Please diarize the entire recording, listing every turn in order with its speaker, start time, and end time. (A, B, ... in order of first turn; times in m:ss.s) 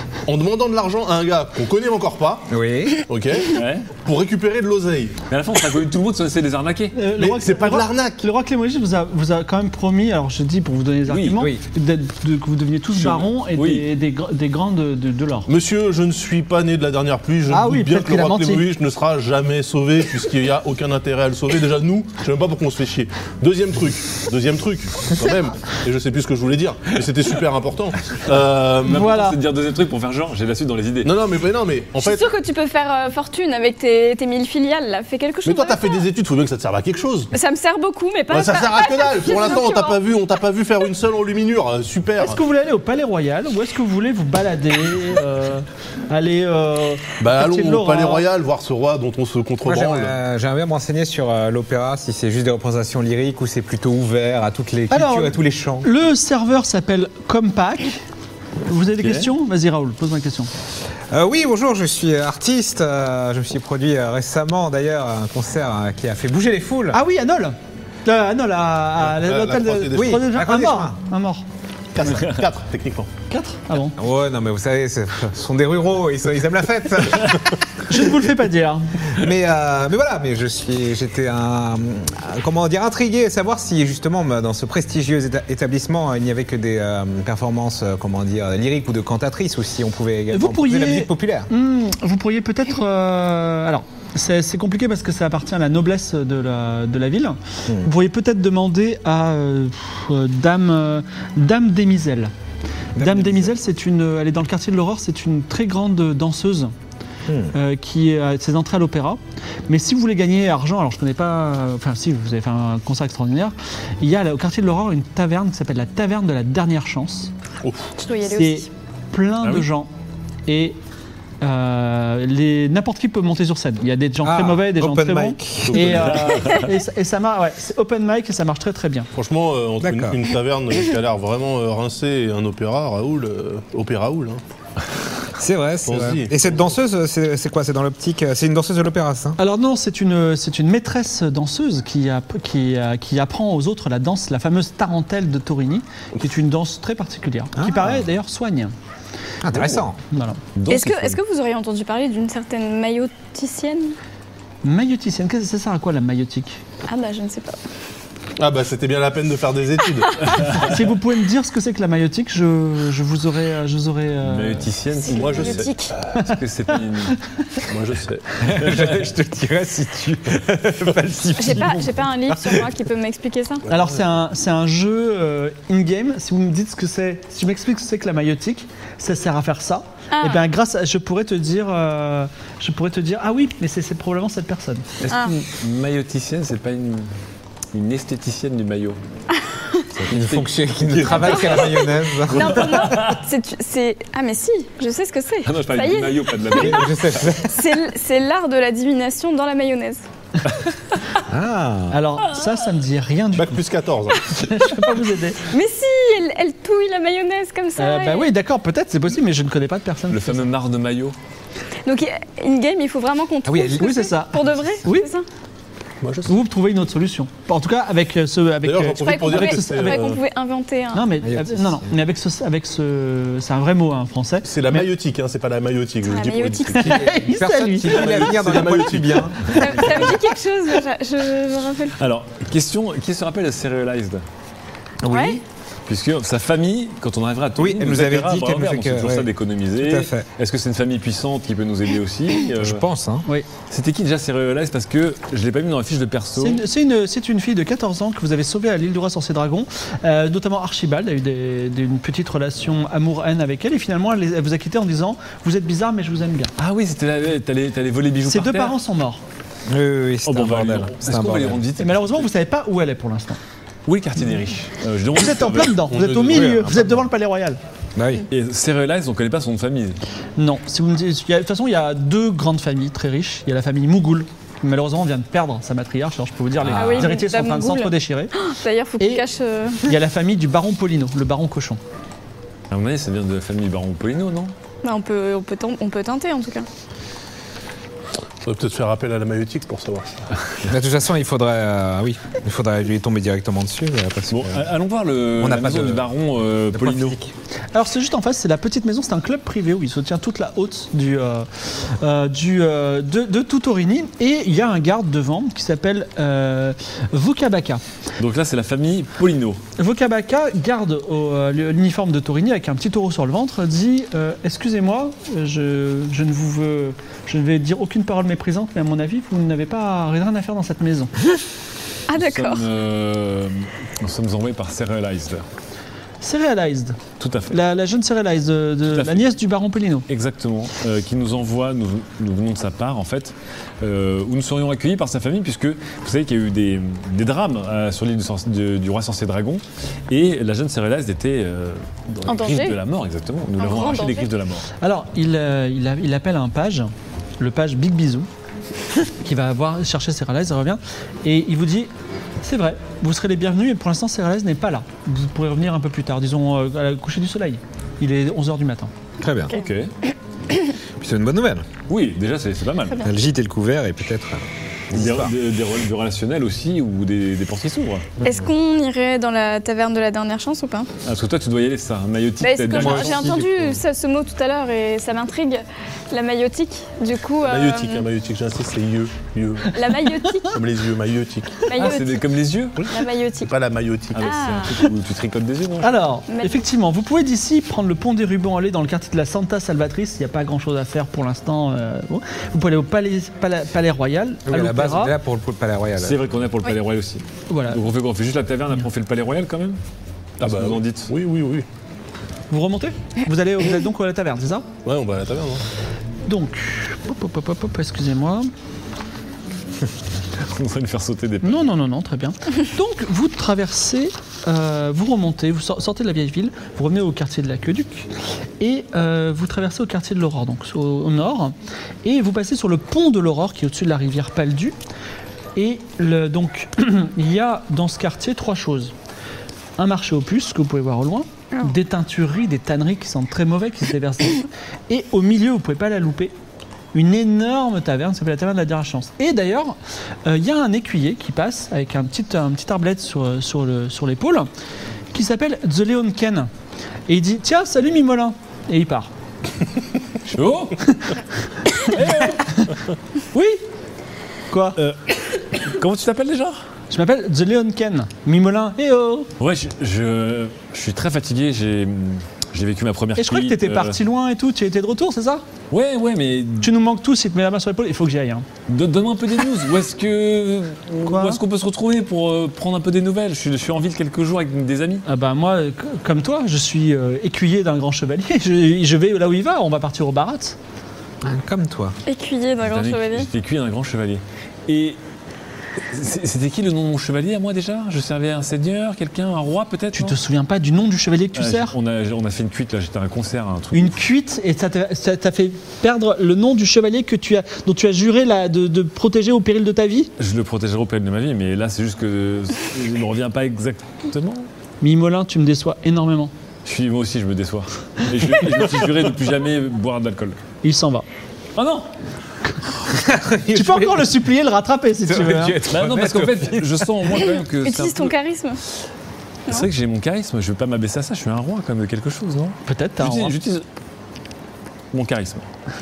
0:00.2-0:02.5 A
0:02.5-0:03.0 B
0:03.1-0:05.2 A
0:03.5-0:03.9 C
0:05.3-0:07.0 C
0:06.9-0:15.5 D
0:07.2-0:08.2 A
0:11.1-0:11.5 C
0:12.9-0:13.8 C
0:15.5-0:29.1 A
0:17.5-0:18.7 D
0:28.8-0:31.1 C
0:28.8-0:29.4 D
0:31.0-0:32.3 A
0:32.0-0:36.0 E
0:35.4-0:37.3 A
0:37.3-0:40.0 E
0:38.3-0:42.4 A
0:42.2-0:48.2 D
0:47.2-0:50.2 A
0:49.6-0:55.9 B
0:54.9-0:58.0 D
0:58.6-1:00.5 D
0:59.0-0:59.3 C
1:01.1-1:07.0 B
1:06.9-1:11.4 D
1:09.0-1:10.2 A
1:09.9-1:11.0 B
1:11.9-1:13.1 A
1:13.3-1:14.0 D
1:14.0-1:17.4 B
1:17.9-1:18.9 D
1:19.1-1:31.5 B
1:30.3-1:42.3 D
1:43.0-1:43.5 B
1:43.0-1:46.7 D
1:47.3-1:47.5 B
1:47.5-1:57.3 D
1:57.6-1:58.0 A
1:58.0-1:58.7 E
1:58.3-1:59.9 D
2:00.5-2:00.8 D
2:01.4-2:09.1 D
2:04.2-2:06.2 B
2:05.7-2:06.5 A
2:05.9-2:06.7 C
2:06.4-2:06.6 E
2:09.1-2:14.4 A
2:09.8-2:10.2 B
2:15.4-2:19.4 B
2:15.8-2:16.5 A
2:19.4-2:28.7 D
2:27.6-2:28.0 B
2:29.4-2:30.0 B
2:30.1-2:30.4 D
2:30.5-2:31.2 C
2:30.7-2:33.9 E
2:34.6-2:36.6 D
2:36.9-2:37.6 E
2:38.4-2:40.4 A
2:40.5-2:44.7 D
2:44.2-2:47.2 C
2:44.9-2:46.0 E
2:45.1-2:45.9 A
2:47.7-2:48.4 A
2:48.5-2:52.6 B
2:48.5-2:49.0 C
2:51.4-2:53.6 E
2:53.7-2:54.0 A
2:53.7-3:04.8 D
3:00.1-3:00.4 E
3:05.0-3:07.1 C
3:05.1-3:05.3 E
3:07.7-3:09.0 C
3:09.4-3:09.8 E
3:09.9-3:13.2 C
3:10.1-3:13.0 B
3:11.0-3:16.9 E
3:15.4-3:17.3 C
3:16.5-3:17.8 B
3:17.4-3:20.0 E
3:21.3-3:22.0 B
3:21.9-3:23.6 D
3:23.3-3:24.3 A
3:24.3-3:25.4 D
3:25.5-3:28.3 E
3:27.8-3:30.4 D
3:30.1-3:31.2 C
3:31.8-3:35.2 E
3:33.4-3:34.0 B
3:33.8-3:35.1 D
3:36.0-3:36.3 A
3:36.3-3:40.1 D
3:38.6-3:40.2 A
3:39.0-3:41.1 E
3:40.9-3:44.9 D
3:41.2-3:41.9 B
3:44.4-3:47.0 A
3:46.0-3:47.0 E
3:46.7-3:48.4 D
3:46.9-3:50.1 B
3:47.8-3:49.6 A
3:49.6-3:52.0 E
3:52.0-3:54.2 C
3:55.0-3:55.4 B
3:55.1-3:55.4 E
3:55.9-4:02.8 C
3:57.6-4:00.3 B
4:02.6-4:03.2 B
4:03.7-4:06.6 C
4:06.4-4:16.5 D
4:16.6-4:18.8 C
4:18.3-4:19.2 D
4:19.7-4:21.6 B
4:20.2-4:22.2 C
4:21.8-4:23.4 D
4:23.8-4:25.8 C
4:25.1-4:27.6 D
4:25.8-4:27.0 A
4:26.3-4:26.8 B
4:28.0-4:28.2 B
4:28.3-4:30.0 C
4:30.4-4:38.3 D
4:36.6-4:37.2 C
4:36.7-4:39.8 E
4:39.8-4:41.8 D
4:42.7-4:44.5 C
4:44.8-4:46.7 E
4:48.4-4:50.1 A
4:50.7-4:54.6 B
4:54.3-4:57.2 C
4:55.4-4:56.1 B
4:56.7-4:57.3 B
4:57.7-5:07.8 D
5:08.2-5:09.6 C
5:09.8-5:21.1 D
5:22.1-5:22.6 E
5:22.1-5:25.4 C
5:26.2-5:27.0 D
5:27.2-5:27.6 C
5:27.5-5:30.0 D
5:28.9-5:29.2 C
5:30.1-5:44.7 C
5:42.2-5:42.8 E
5:43.6-5:44.3 E
5:44.8-5:48.3 D
5:49.2-5:51.9 D
5:52.4-5:58.9 D
5:59.2-5:59.5 B
5:59.5-5:59.9 C
6:01.0-6:01.6 B
6:01.9-6:03.0 C
6:03.0-6:05.3 B
6:04.9-6:08.1 C
6:08.2-6:10.9 E
6:11.0-6:13.4 C
6:12.4-6:18.0 E
6:12.8-6:13.7 B
6:17.4-6:19.8 A
6:19.7-6:20.6 E
6:20.2-6:20.5 D
6:20.5-6:21.7 A
6:21.6-6:22.2 E
6:21.7-6:22.8 C
6:22.8-6:24.4 A
6:22.8-6:23.5 E
6:24.1-6:26.0 C
6:24.2-6:24.8 E
6:25.8-6:35.1 D
6:26.3-6:26.6 E
6:34.4-6:36.2 B
6:36.0-6:39.8 C
6:37.5-6:37.8 D
6:40.4-6:41.6 A
6:40.4-6:41.1 C
6:42.5-6:44.6 D
6:44.8-6:45.6 A
6:46.3-6:48.5 D
6:50.4-6:51.6 C
6:51.4-6:58.1 D
6:58.6-7:04.7 D
7:05.6-7:08.9 D
7:09.8-7:16.3 D
7:16.9-7:24.5 D
7:25.1-7:26.5 D
7:27.1-7:29.1 D
7:30.3-7:30.8 C
7:31.8-7:32.7 C
7:33.3-7:33.6 D
7:34.5-7:34.9 D
7:35.6-7:36.6 C
7:36.9-7:39.3 D
7:39.4-7:44.0 C
7:43.2-7:45.4 D
7:45.7-7:46.7 C
7:46.6-7:48.4 D
7:48.7-7:55.0 C
7:51.0-7:51.4 D
7:55.0-8:00.6 D
8:01.2-8:01.9 B
8:02.0-8:03.3 E
8:02.6-8:05.0 C
8:05.9-8:10.2 C
8:09.9-8:11.7 D
8:11.3-8:14.0 C
8:13.7-8:20.1 D
8:20.2-8:24.5 C
8:24.8-8:26.3 D
8:26.6-8:30.4 C
8:30.6-8:31.0 D
8:31.6-8:31.9 C
8:32.9-8:34.1 B
8:33.5-8:35.6 D
8:35.0-8:36.9 B
8:35.6-8:38.1 C
8:37.6-8:38.6 E
8:39.5-8:43.6 C
8:42.6-8:43.4 D
8:44.9-8:45.4 C